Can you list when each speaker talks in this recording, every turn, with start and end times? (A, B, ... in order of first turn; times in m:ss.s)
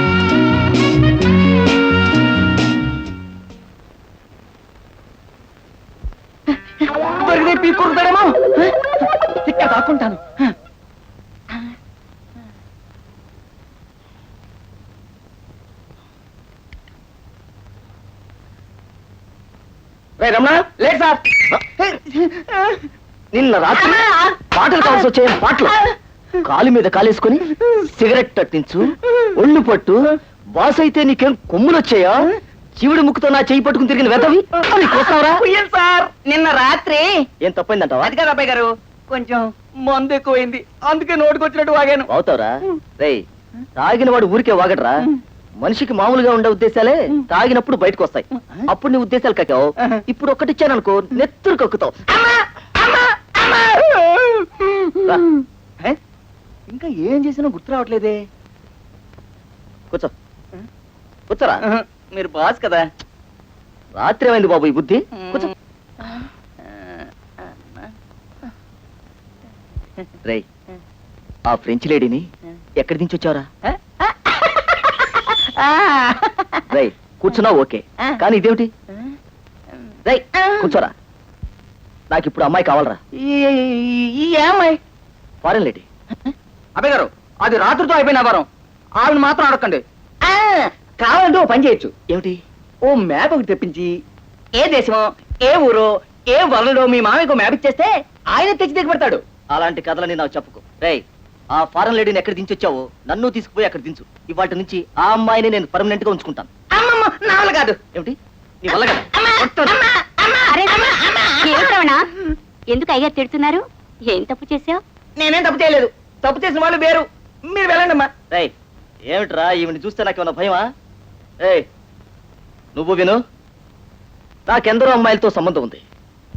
0:07.0-0:08.7 A
0:09.4-0:10.5 A
0:20.2-0:20.6 B
0:20.6-0:22.8 A
0:23.3-0:25.8 B
0:26.4-0:35.4 B
0:34.6-0:37.1 A
0:37.4-0:38.1 B
0:38.0-0:42.1 A
0:42.1-0:43.2 B
0:43.8-0:45.1 B
0:45.6-0:52.1 B
0:52.2-0:54.8 A
0:56.7-0:58.2 A
1:01.3-1:01.6 B
1:01.7-1:02.9 A
1:04.0-1:05.5 B
1:05.2-1:05.5 A
1:06.0-1:07.0 A
1:11.5-1:12.3 B
1:12.8-1:13.5 B
1:14.1-1:16.6 A
1:16.7-1:18.7 B
1:20.0-1:20.9 B
1:20.4-1:20.7 A
1:22.1-1:23.0 B
1:23.2-1:24.8 A
1:25.4-1:25.9 B
1:26.2-1:28.5 A
1:29.0-1:31.9 A
1:32.1-1:32.4 B
1:32.9-1:34.0 A
1:34.6-1:39.2 A
1:39.5-1:46.5 B
1:46.7-1:47.8 A
1:47.9-1:49.8 B
1:49.2-1:51.7 A
1:50.5-1:50.9 C
1:51.4-1:54.8 C
1:55.2-1:58.1 A
1:59.1-2:00.7 B
2:02.8-2:03.2 B
2:04.5-2:05.8 B